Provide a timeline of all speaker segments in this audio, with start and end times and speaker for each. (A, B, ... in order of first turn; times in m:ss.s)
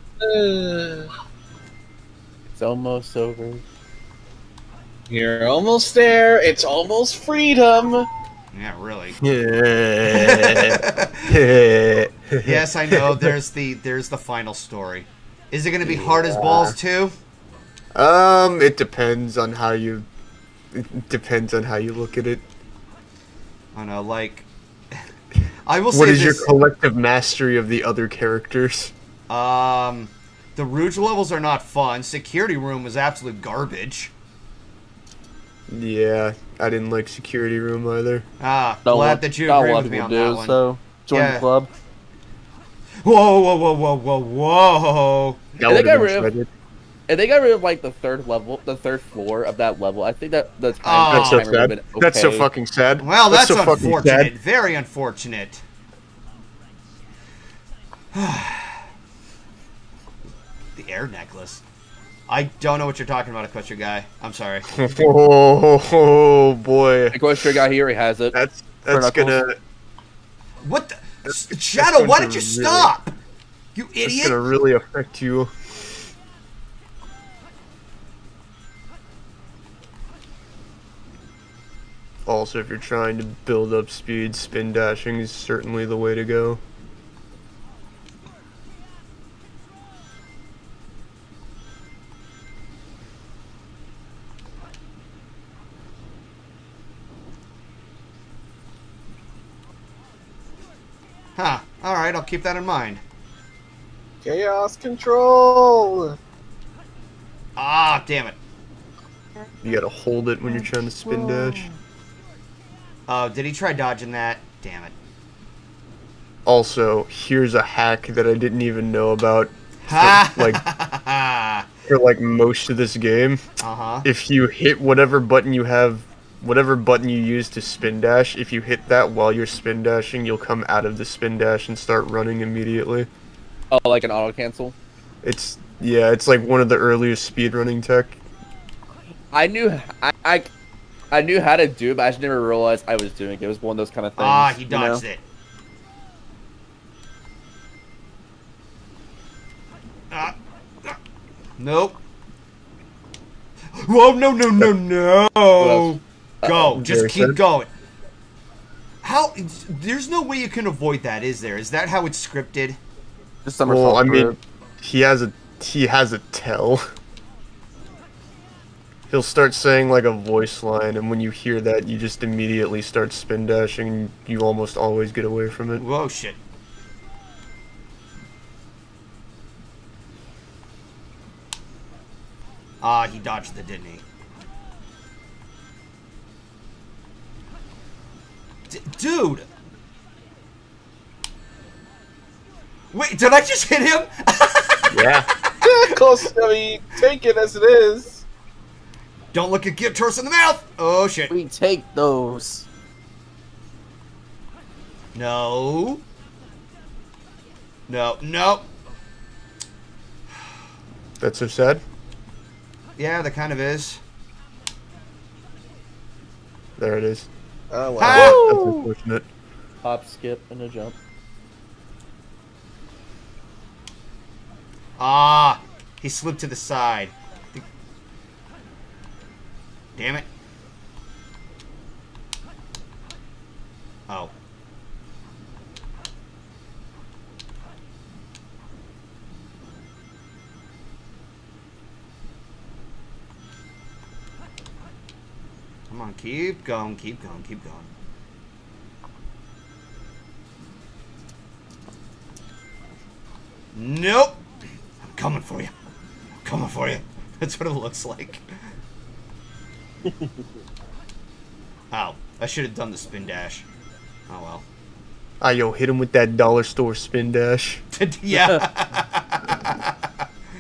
0:00.2-0:01.1 A
0:02.5-0:03.6 B
0:05.1-0:08.1 A
0:08.5-0:09.2 C
0:09.2-0:13.3 D
0:10.1-0:11.4 C
0:12.4-0:17.1 C
0:15.8-0:16.8 D
0:17.9-0:20.1 D
0:20.7-0:22.4 D
0:23.7-0:24.4 C
0:25.6-0:26.5 C
0:25.9-0:28.9 D
0:29.3-0:34.1 C
0:35.7-0:38.2 D
0:38.4-0:40.6 C
0:38.8-0:41.7 B
0:41.1-0:41.4 C
0:43.0-0:45.6 C
0:45.6-0:46.5 D
0:45.7-0:46.3 B
0:47.1-0:52.5 B
0:50.8-0:51.5 C
0:51.1-0:54.3 D
0:53.0-0:55.6 C
0:58.1-0:58.8 C
1:00.7-1:01.6 C
1:02.3-1:04.7 C
1:04.7-1:07.2 D
1:07.1-1:08.4 B
1:08.3-1:09.6 D
1:08.9-1:09.4 B
1:10.6-1:13.1 C
1:11.2-1:12.9 D
1:13.7-1:14.4 C
1:14.0-1:15.8 D
1:22.2-1:26.6 D
1:41.4-1:43.0 C
1:44.2-1:46.2 A
1:47.6-1:48.4 C
1:49.6-1:51.7 D
1:51.1-1:51.7 B
1:53.1-1:54.9 C
1:56.4-2:00.6 D
1:59.8-2:01.7 C
2:01.9-2:03.4 D
2:03.6-2:04.0 C
2:04.0-2:13.1 D
2:13.7-2:14.8 B
2:15.2-2:18.2 D
2:19.3-2:20.5 B
2:21.1-2:25.0 B
2:24.2-2:25.2 C
2:30.1-2:31.0 C
2:31.6-2:32.0 C
2:33.7-2:37.7 C
2:35.6-2:36.7 B
2:36.7-2:37.4 D
2:39.0-2:42.8 C
2:43.4-2:44.4 B
2:43.6-2:46.9 D
2:49.1-2:55.8 D
2:55.8-2:56.4 C
3:02.8-3:04.0 C
3:08.7-3:09.5 C
3:12.9-3:15.9 C
3:14.9-3:15.3 D
3:15.6-3:18.2 A
3:19.3-3:21.3 C
3:21.3-3:22.7 B
3:25.1-3:26.0 C
3:27.9-3:28.7 C
3:31.2-3:31.8 D
3:33.0-3:34.0 C
3:36.8-3:37.3 D
3:37.7-3:38.4 A
3:38.0-3:38.4 C
3:38.0-3:39.2 D
3:38.1-3:38.9 B
3:39.8-3:41.0 B
3:45.0-3:47.6 C
3:50.0-3:50.3 C
4:05.9-4:07.9 C
4:13.7-4:14.4 C
4:15.0-4:15.7 C
4:16.4-4:18.4 C
4:21.9-4:23.6 C
4:24.3-4:24.6 C
4:25.4-4:27.8 D
4:27.9-4:30.1 C
4:28.3-4:28.6 B